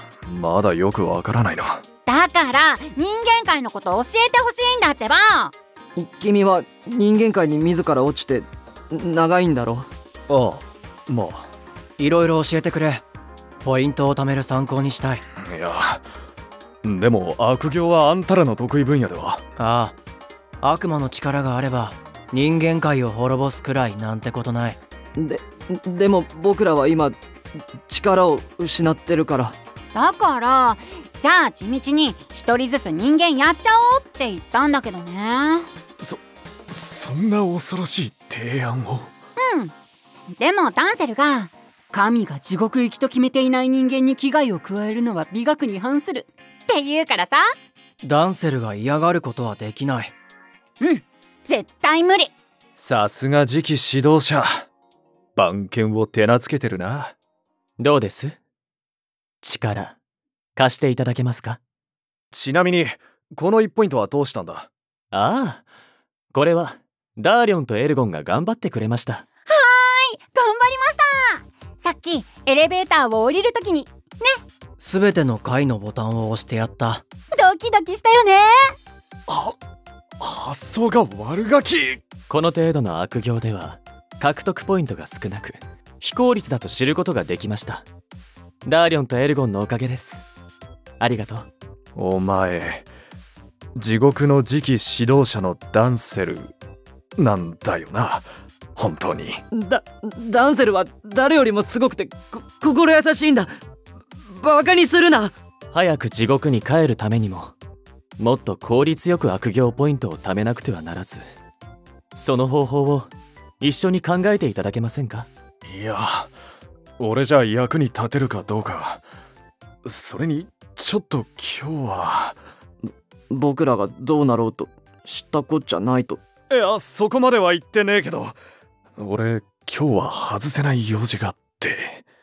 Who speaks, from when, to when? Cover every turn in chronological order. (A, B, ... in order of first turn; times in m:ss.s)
0:00.2-0:01.8 A
0:02.1-0:05.5 B
0:06.0-0:09.9 C
0:10.3-0:11.5 A
0:12.0-0:13.0 D
0:13.6-0:15.2 D
0:15.4-0:16.0 A
0:16.8-0:19.4 A
0:19.6-0:19.9 D
0:20.6-0:24.8 D
0:25.2-0:27.2 C
0:27.8-0:29.6 C
0:29.9-0:35.7 B
0:36.0-0:39.1 A
0:39.4-0:39.7 B
0:40.4-0:47.4 B
0:48.0-0:50.1 D
0:50.8-0:52.3 B
0:52.8-0:54.6 A
0:55.4-0:57.1 A
0:57.8-0:58.4 E
0:59.4-1:00.0 E
1:00.6-1:01.6 E
1:02.3-1:04.7 A
1:05.1-1:05.6 E
1:06.3-1:09.2 E
1:09.5-1:14.4 B
1:14.8-1:17.0 D
1:17.3-1:18.7 B
1:19.3-1:19.6 A
1:20.2-1:22.0 A
1:22.3-1:27.8 E
1:28.6-1:30.2 E
1:31.0-1:31.5 E
1:32.0-1:32.9 A
1:33.7-1:36.5 A
1:37.2-1:39.4 A
1:39.5-1:43.5 C
1:44.2-1:45.3 C
1:45.7-1:47.5 E
1:48.2-1:51.2 E
1:52.1-1:55.3 E
1:55.6-1:56.3 A
1:57.0-1:59.0 A
1:59.8-2:02.4 A
2:03.3-2:06.2 C
2:06.5-2:08.4 A
2:09.0-2:12.0 A